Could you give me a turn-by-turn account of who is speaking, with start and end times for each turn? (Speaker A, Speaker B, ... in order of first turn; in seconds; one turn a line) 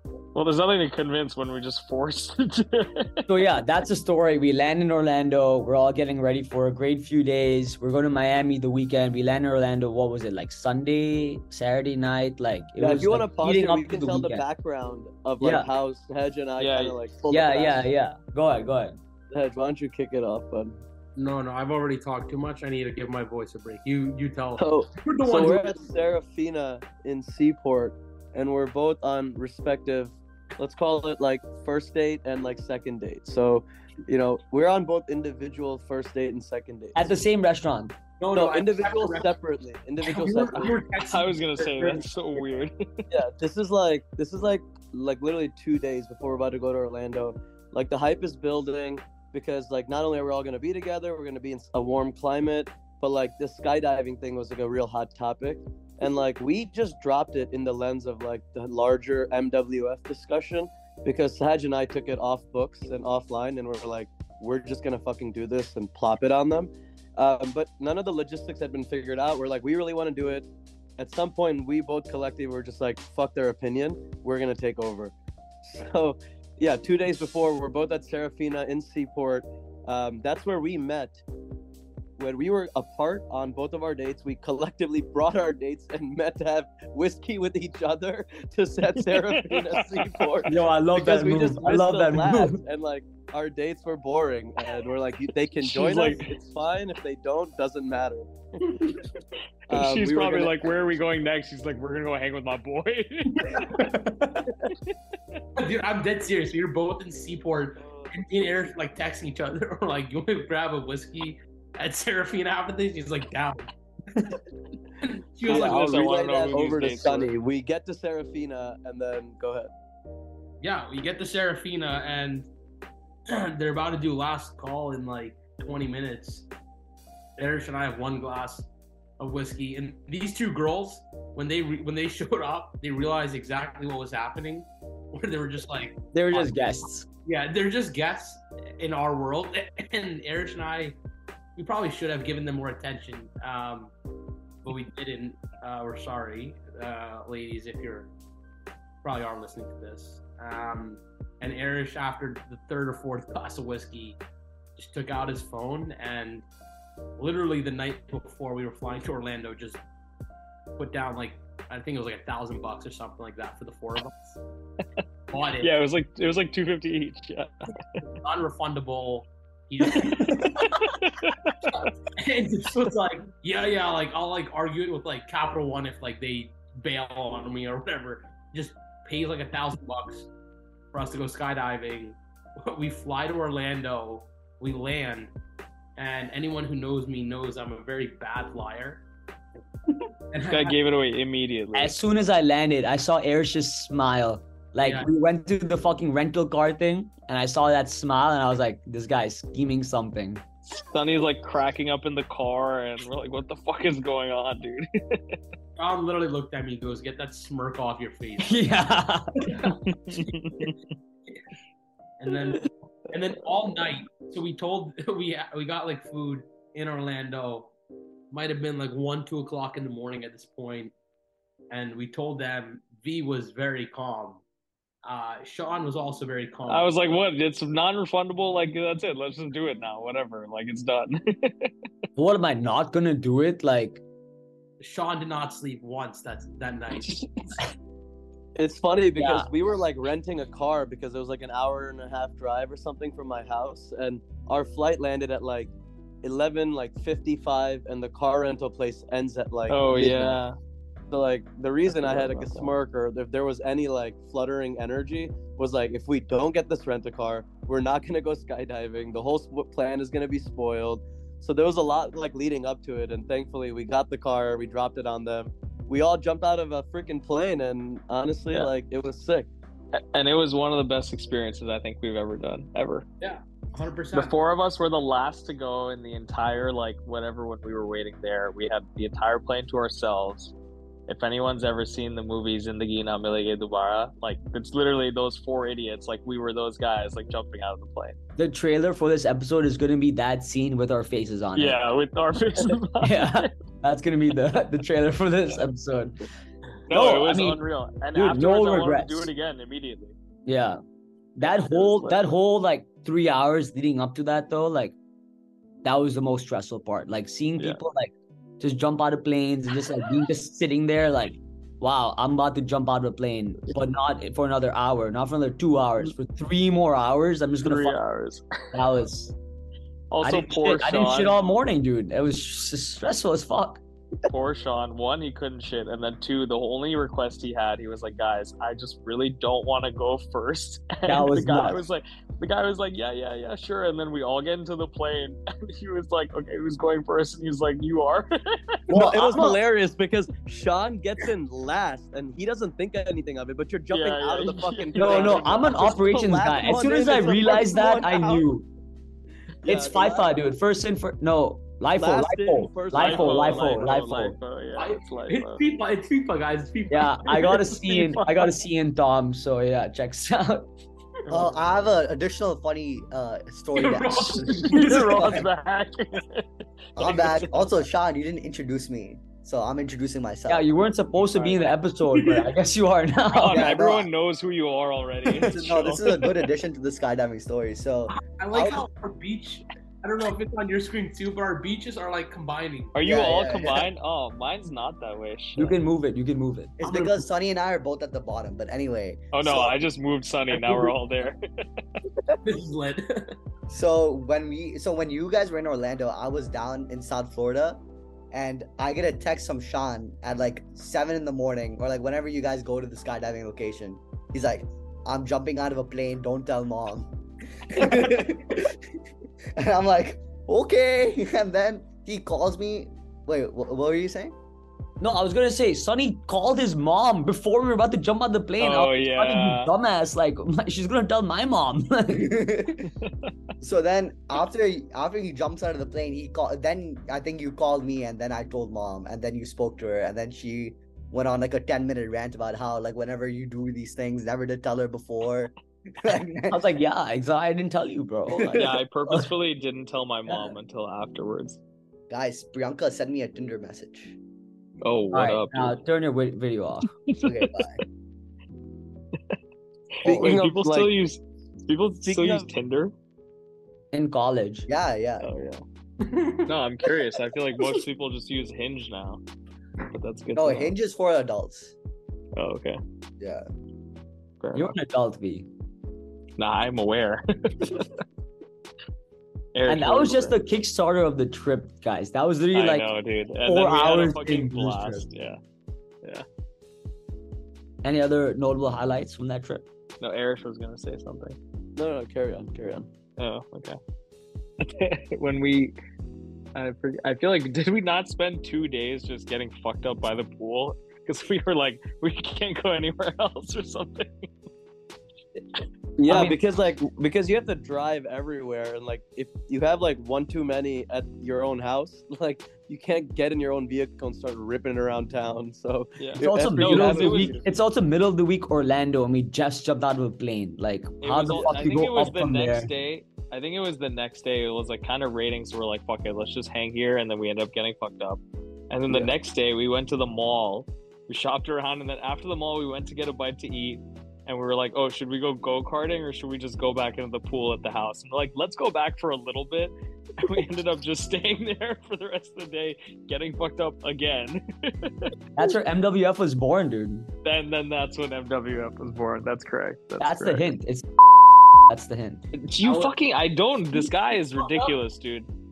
Speaker A: 0.3-3.3
Speaker B: 3.3-14.4
Speaker C: 12.8-17.9
Speaker B: 15.4-15.7
Speaker A: 16.6-17.0
Speaker B: 17.3-19.0
Speaker C: 19.3-20.8
Speaker D: 21.2-25.8
Speaker C: 24.6-37.1
Speaker B: 37.0-38.5
Speaker D: 38.2-39.3
Speaker C: 38.4-40.8
Speaker D: 40.0-42.0
Speaker A: 40.9-43.0
Speaker C: 43.1-81.2
Speaker C: 82.2-98.3
Speaker A: 89.1-90.4
Speaker B: 90.5-92.6
Speaker A: 95.6-96.3
Speaker A: 99.7-103.7
Speaker C: 99.7-100.7
Speaker D: 103.4-104.5
Speaker D: 105.6-114.4
Speaker C: 107.8-108.2
Speaker D: 115.0-115.9
Speaker C: 115.5-119.7
Speaker A: 115.5-117.3
Speaker D: 120.6-122.5
Speaker D: 123.3-126.5
Speaker D: 127.4-128.7
Speaker D: 129.2-136.6
Speaker B: 136.1-137.1
Speaker D: 137.2-141.0
Speaker D: 141.6-143.9
Speaker D: 144.6-148.1
Speaker D: 149.0-154.2
Speaker D: 154.8-156.4
Speaker D: 157.2-159.8
Speaker D: 160.8-164.4
Speaker D: 165.3-165.7
Speaker A: 165.6-168.0
Speaker D: 168.1-171.0
Speaker A: 169.9-171.9
Speaker D: 171.7-180.3
Speaker D: 180.9-185.3
Speaker D: 186.0-189.1
Speaker D: 190.3-190.8
Speaker A: 190.5-191.9
Speaker B: 191.7-200.4
Speaker D: 194.8-195.1
Speaker A: 200.7-205.4
Speaker D: 205.8-208.8
Speaker B: 208.4-209.7
Speaker D: 209.4-210.7
Speaker A: 209.9-210.8
Speaker D: 212.2-217.7
Speaker D: 218.3-220.9
Speaker D: 221.7-224.4
Speaker D: 225.0-226.9
Speaker A: 226.7-231.7
Speaker B: 232.2-234.0
Speaker D: 234.8-237.6
Speaker C: 238.6-245.7
Speaker B: 239.2-239.5
Speaker C: 246.2-250.4
Speaker A: 249.7-250.6
Speaker C: 251.1-269.5
Speaker A: 251.9-252.7
Speaker A: 269.9-273.1
Speaker D: 273.2-274.3
Speaker A: 274.1-280.5
Speaker A: 281.1-288.2
Speaker B: 288.4-291.8
Speaker A: 291.6-293.5
Speaker B: 293.0-296.3
Speaker A: 296.9-300.1
Speaker B: 296.9-299.3
Speaker B: 300.5-300.8
Speaker B: 301.4-304.9
Speaker A: 301.4-302.2
Speaker B: 305.8-318.0
Speaker A: 317.6-318.4
Speaker B: 318.7-319.3
Speaker A: 320.1-321.3
Speaker B: 320.2-323.8
Speaker A: 324.3-339.6
Speaker B: 331.1-331.8
Speaker B: 338.9-339.5
Speaker C: 338.9-348.5
Speaker A: 343.9-345.9
Speaker B: 345.0-348.6
Speaker C: 349.6-350.4
Speaker B: 349.7-354.4
Speaker C: 352.0-353.9
Speaker A: 352.9-355.6
Speaker D: 354.8-357.5
Speaker B: 356.9-360.7
Speaker A: 357.3-358.5
Speaker E: 361.3-365.5
Speaker D: 363.8-365.3
Speaker A: 364.6-366.5
Speaker A: 367.0-367.6
Speaker E: 367.0-370.7
Speaker B: 370.5-373.8
Speaker A: 371.3-371.7
Speaker D: 372.1-372.5
Speaker A: 373.3-376.2
Speaker E: 373.4-374.1
Speaker E: 375.3-378.9
Speaker D: 378.1-382.9
Speaker A: 382.9-385.8
Speaker E: 383.0-383.9
Speaker B: 385.6-386.7
Speaker E: 386.8-389.8
Speaker D: 386.8-387.3
Speaker A: 389.3-391.8
Speaker D: 392.4-393.3
Speaker E: 393.7-407.1
Speaker E: 407.7-408.8
Speaker E: 409.6-414.4
Speaker B: 415.0-422.4
Speaker A: 418.6-419.7
Speaker E: 422.1-422.9
Speaker A: 423.0-423.3
Speaker E: 423.6-436.6
Speaker B: 436.5-438.7
Speaker E: 438.3-438.8
Speaker A: 438.5-441.6
Speaker E: 442.1-444.1
Speaker A: 444.8-445.8
Speaker B: 445.1-446.9
Speaker A: 447.1-447.7
Speaker E: 447.2-447.8
Speaker A: 450.0-452.9
Speaker C: 450.0-450.9
Speaker C: 452.0-452.5
Speaker B: 453.9-454.7
Speaker E: 454.7-455.3
Speaker A: 455.2-455.6
Speaker D: 456.0-456.4
Speaker A: 456.5-459.2
Speaker A: 459.9-460.7
Speaker E: 460.4-461.7
Speaker A: 462.4-462.8
Speaker E: 463.2-463.5
Speaker A: 464.4-464.8
Speaker B: 464.5-465.5
Speaker A: 466.4-467.9
Speaker A: 469.6-470.4
Speaker B: 469.7-472.9
Speaker A: 472.5-475.4
Speaker B: 473.4-475.1
Speaker B: 477.8-479.6
Speaker A: 480.0-481.4
Speaker C: 481.8-482.9
Speaker A: 483.2-483.8
Speaker A: 484.6-485.8
Speaker A: 486.6-494.3
Speaker C: 496.0-507.5
Speaker A: 496.1-496.4
Speaker A: 506.0-507.4
Speaker B: 506.2-512.7
Speaker A: 511.0-535.1
Speaker C: 511.2-511.6
Speaker B: 535.4-537.1
Speaker A: 537.2-540.5
Speaker B: 540.0-542.3
Speaker A: 542.4-545.3